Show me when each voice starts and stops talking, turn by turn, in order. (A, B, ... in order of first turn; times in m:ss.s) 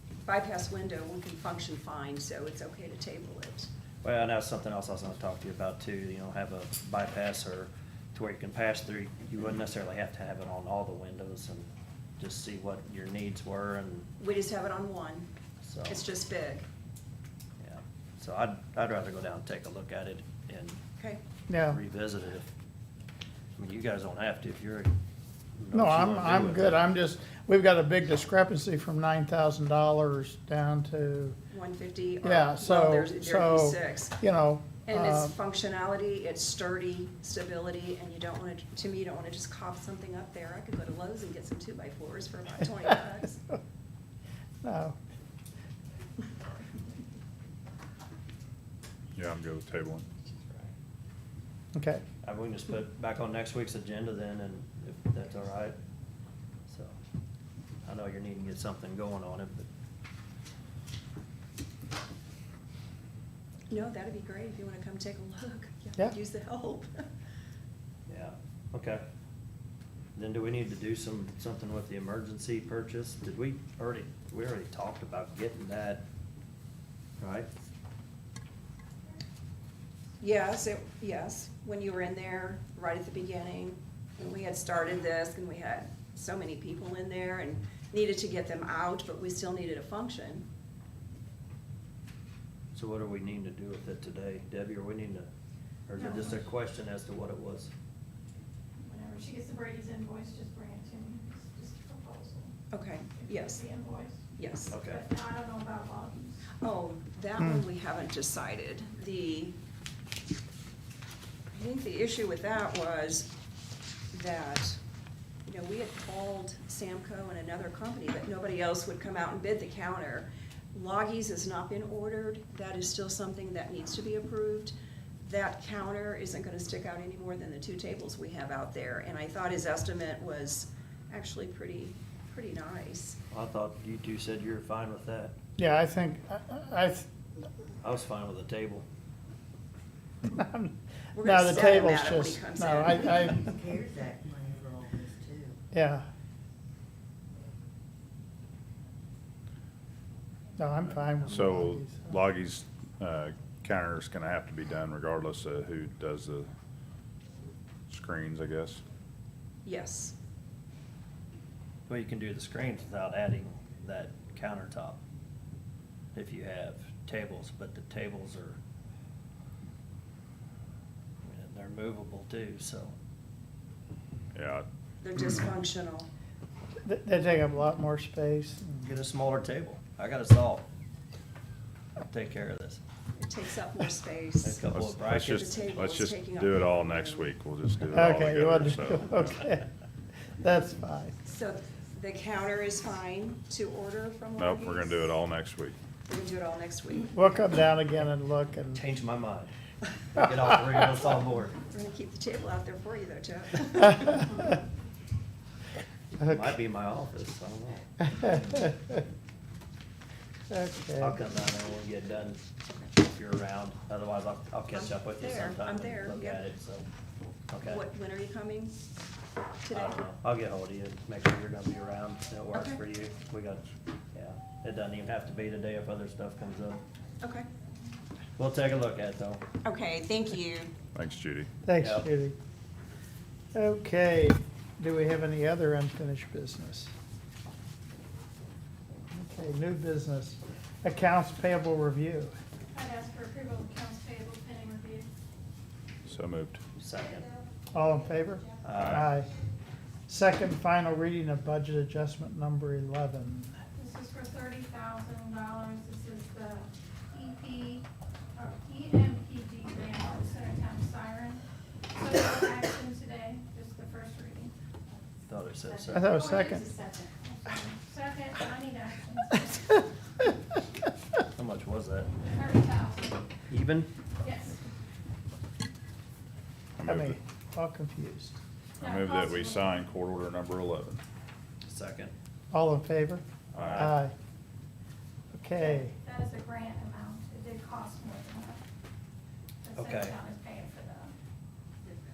0:00.2-0:03.7 A
0:04.0-0:11.7 B
0:12.2-0:14.1 B
0:14.2-0:15.3 A
0:15.6-0:16.0 B
0:15.9-0:16.7 A
0:17.6-0:20.8 B
0:21.5-0:21.8 C
0:21.7-0:22.5 B
0:23.6-0:24.9 B
0:25.6-0:26.8 B
0:25.7-0:31.4 C
0:31.5-0:34.2 A
0:32.2-0:35.4 C
0:34.9-0:43.4 A
0:44.6-0:45.0 C
0:49.2-0:50.1 D
0:51.8-0:52.0 C
0:52.2-0:55.8 B
0:56.7-0:56.9 B
0:57.8-0:59.7 B
1:03.7-1:07.0 A
1:08.1-1:09.0 B
1:10.2-1:16.0 B
1:17.2-1:17.5 B
1:20.2-1:30.5 A
1:32.7-1:35.3 B
1:35.9-1:37.7 B
1:36.0-1:36.3 E
1:38.8-1:42.5 E
1:42.7-1:43.6 A
1:43.2-1:44.2 E
1:44.3-1:44.8 A
1:44.7-1:45.0 B
1:44.9-1:46.5 E
1:46.6-1:49.6 A
1:51.5-1:53.3 A
1:54.1-1:54.8 A
1:55.5-2:13.2 A
2:13.3-2:15.4 B
2:15.6-2:17.1 C
2:17.8-2:18.8 B
2:20.3-2:23.5 C
2:21.1-2:23.4 A
2:23.2-2:25.6 F
2:25.7-2:26.1 C
2:30.6-2:32.2 C
2:31.3-2:36.5 D
2:37.9-2:38.8 D
2:39.6-2:40.2 A
2:41.9-2:45.0 B
2:46.1-2:48.6 B
2:51.2-2:52.9 B
2:54.3-2:54.7 D
2:55.0-2:56.1 A
2:56.8-2:58.8 C
2:58.8-3:00.6 B
3:02.0-3:02.8 B
3:03.2-3:07.3 A
3:04.4-3:05.4 B
3:04.7-3:09.1 D
3:07.9-3:09.7 C
3:10.4-3:11.2 C
3:11.2-3:15.0 A
3:14.4-3:15.8 D
3:16.1-3:17.1 A
3:17.1-3:18.8 C
3:18.8-3:19.5 B
3:20.1-3:21.6 B
3:21.7-3:24.4 A
3:26.2-3:28.0 B
3:28.1-3:29.0 C
3:30.5-3:31.2 C
3:31.0-3:32.4 B
3:33.0-3:36.8 B
3:34.7-3:36.4 A
3:37.5-3:37.8 B
3:37.6-3:38.7 A
3:39.6-3:40.0 A
3:39.7-3:46.8 B
3:42.5-3:42.8 A
3:47.2-3:47.5 A
3:48.4-3:49.4 B
3:49.6-3:50.7 A
3:51.0-3:51.5 D
3:51.6-3:52.4 C
3:51.8-3:52.0 B
3:53.5-3:56.9 C
3:59.1-4:02.3 C
4:02.7-4:05.1 E
4:06.0-4:06.6 D
4:06.8-4:07.3 B
4:07.7-4:09.3 C
4:08.6-4:09.1 B
4:08.8-4:09.0 D
4:10.1-4:13.5 C
4:13.8-4:24.5 E
4:25.3-4:26.2 B
4:25.9-4:26.7 C
4:26.1-4:29.8 E
4:31.4-4:32.1 B
4:32.3-4:33.3 E
4:33.5-4:33.9 B
4:34.2-4:34.6 E
4:36.8-4:37.2 D
4:36.8-4:38.4 C
4:38.8-4:41.0 D
4:38.8-4:39.7 E
4:41.7-4:42.1 B
4:42.5-4:43.2 C
4:43.5-4:43.9 D
4:43.6-4:44.0 B
4:43.8-4:44.1 C
4:45.3-4:45.9 C
4:45.6-4:48.6 E
4:49.6-4:51.1 E
4:49.8-4:50.2 B